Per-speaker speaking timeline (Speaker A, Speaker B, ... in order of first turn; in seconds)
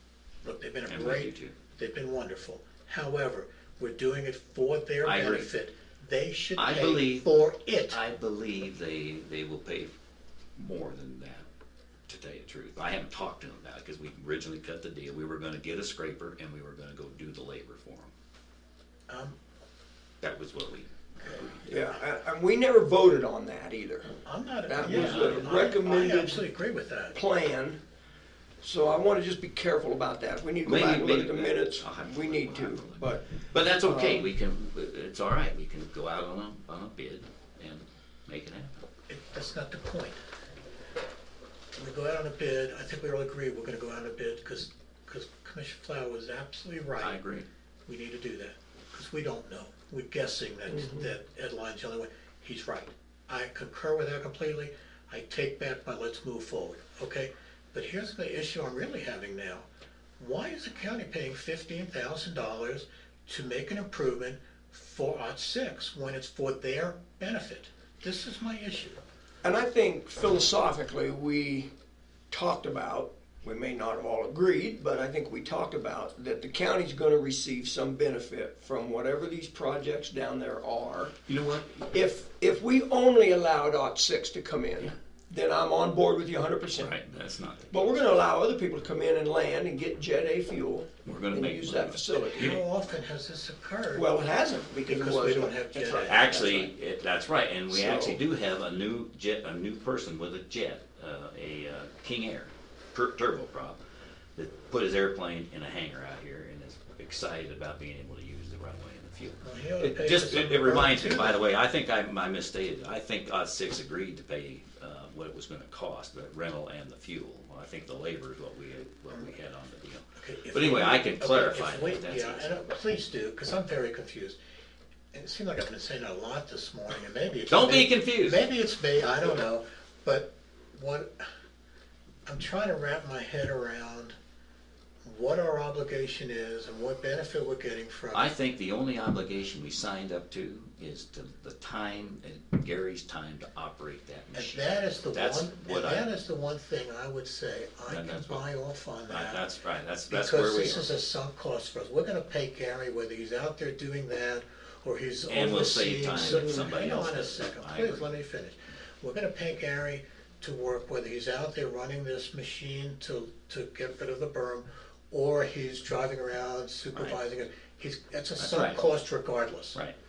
Speaker A: 0.4-8.0, 19.1-19.4, 21.2-21.9, 24.2-27.2, 39.1-40.2, 41.8-47.2, 47.9-59.7, 60.2-69.0, 92.3-94.1, 94.8-96.4, 109.4-111.4, 120.2-124.4, 125.1-131.1, 132.3-134.2, 135.0-138.3, 144.3-149.4, 150.1-169.8
Speaker B: 0.9-1.6, 5.0-5.5, 6.6-7.3, 7.9-9.9, 10.6-11.4, 12.1-18.1, 20.2-21.8, 24.8-25.6, 30.6-38.7, 47.0-47.5, 81.3-81.8, 86.8-88.1, 91.1-92.6, 95.9-103.8, 104.4-122.7, 127.5-128.4, 138.1-146.1, 147.9-148.4, 149.1-150.9, 155.3-158.1, 166.9-167.2, 168.4-168.8
Speaker C: 21.6-24.1, 24.7-26.5, 27.1-27.8, 28.6-34.3, 50.7-51.1, 69.4-71.7, 72.3-81.2, 81.9-87.0, 87.7-92.6, 93.9-96.7, 97.7-98.2, 156.1-156.7